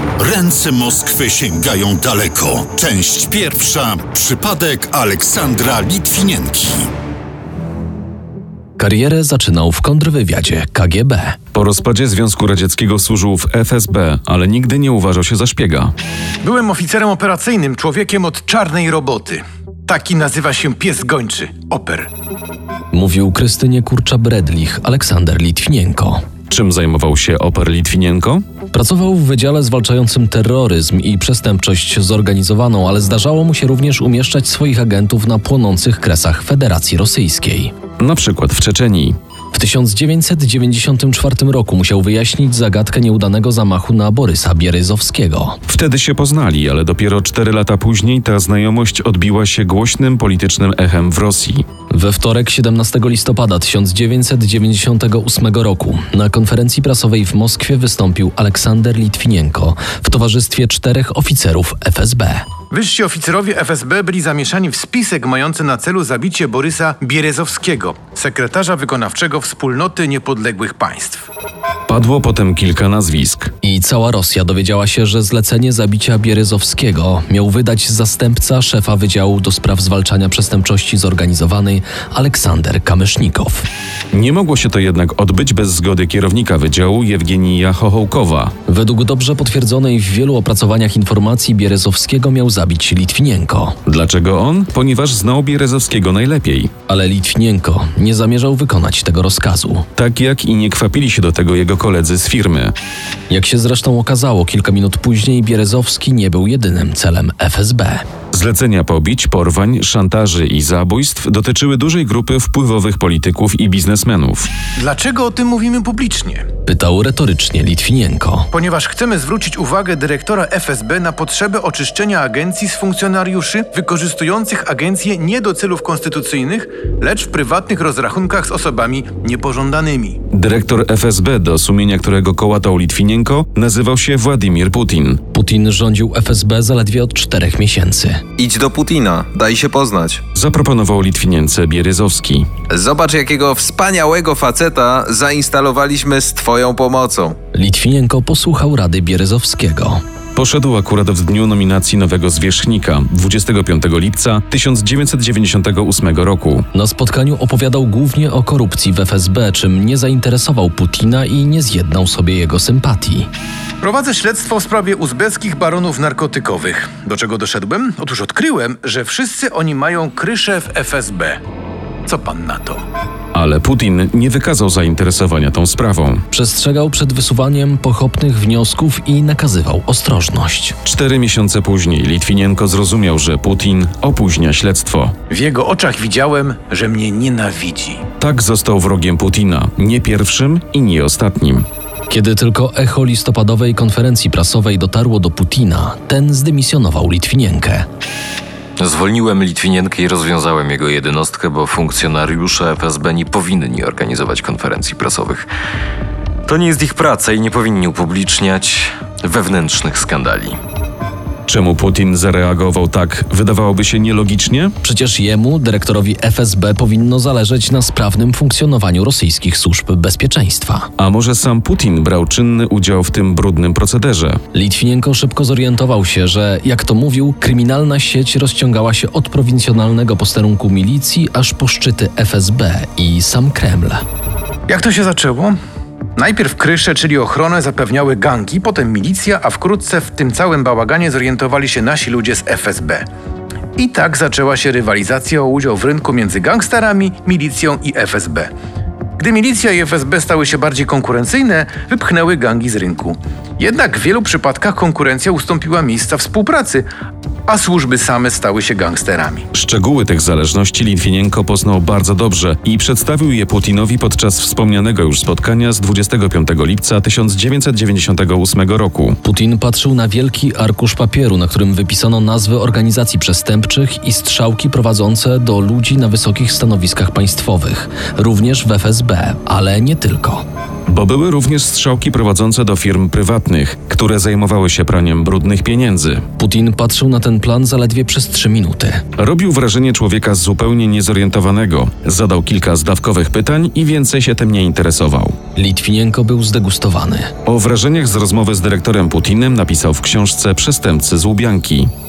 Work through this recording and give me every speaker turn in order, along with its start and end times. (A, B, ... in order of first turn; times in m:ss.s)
0:00.2-0:06.9 A
0:08.8-0:11.4 B
0:11.5-0:15.9 C
0:16.4-0:22.1 D
0:22.9-0:26.2 B
0:26.5-0:28.4 C
0:28.7-0:37.7 B
0:38.0-0:39.2 C
0:39.5-0:45.6 B
0:45.7-0:51.6 C
0:51.9-1:02.5 B
1:02.7-1:11.3 D
1:11.9-1:13.5 C
1:13.6-1:23.7 B
1:24.1-1:28.5 C
1:28.7-1:33.8 B
1:33.8-1:36.7 C
1:36.9-1:39.9 B
1:40.0-1:42.7 C
1:43.3-1:48.0 B
1:48.3-1:54.5 C
1:54.8-1:56.4 D
1:56.7-1:58.5 B
1:58.5-2:10.2 D
2:10.3-2:15.2 C
2:15.3-2:18.2 B
2:18.4-2:20.2 E
2:20.4-2:22.5 C
2:22.7-2:27.4 E
2:27.5-2:30.0 B
2:30.4-2:36.6 C
2:36.7-2:43.3 B
2:43.8-2:51.4 D
2:52.1-2:52.8 D
2:53.3-2:56.2 C
2:56.3-3:00.8 B
3:00.8-3:05.2 C
3:05.3-3:08.0 D
3:08.2-3:11.7 C
3:12.1-3:17.9 B
3:18.8-3:25.5 F
3:26.5-3:30.6 F
3:31.5-3:34.8 C
3:34.8-3:40.9 B
3:41.0-3:44.4 C
3:44.5-3:54.0 B
3:54.7-3:55.6 D
3:56.2-4:03.0 D
4:03.8-4:08.5 D
4:09.2-4:16.9 D
4:17.5-4:19.4 D
4:19.5-4:29.2 C
4:29.2-4:40.4 B
4:40.9-4:46.2 C
4:46.4-4:49.0 B
4:49.2-4:55.4 C
4:55.6-4:57.3 B
4:57.4-5:01.9 C